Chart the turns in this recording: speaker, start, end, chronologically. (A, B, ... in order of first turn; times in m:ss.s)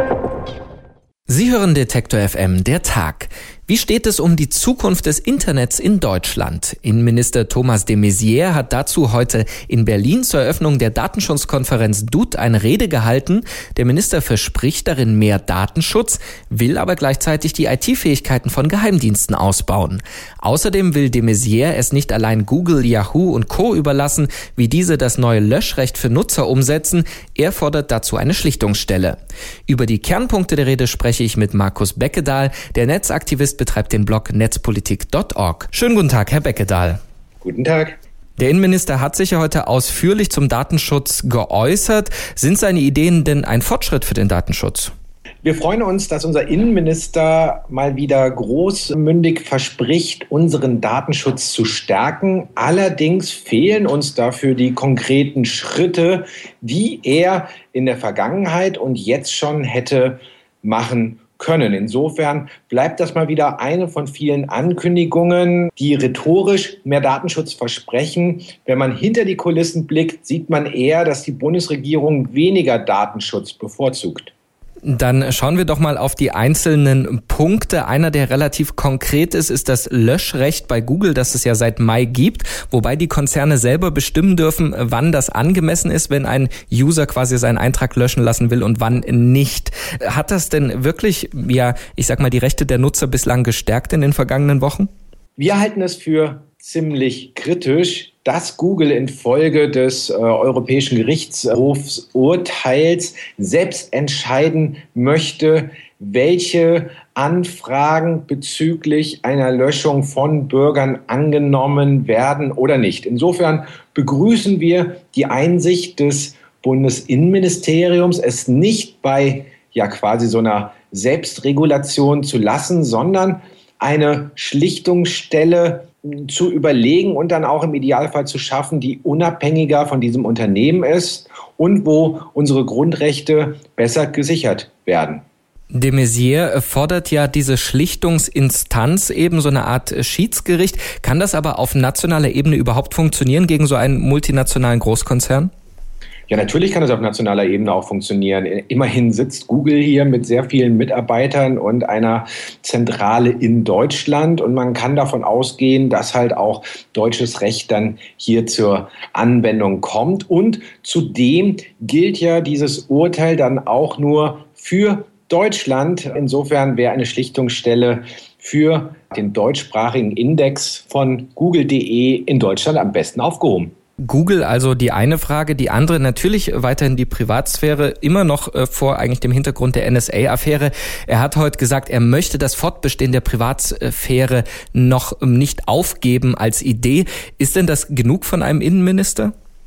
0:01.3-0:37.0 A
0:37.4-0:38.0 B
0:38.4-0:44.9 A
0:45.4-1:14.3 B
1:14.8-1:34.9 A
1:35.4-2:15.2 B
2:15.7-2:25.5 A
2:26.3-2:53.7 B
2:54.0-3:09.3 A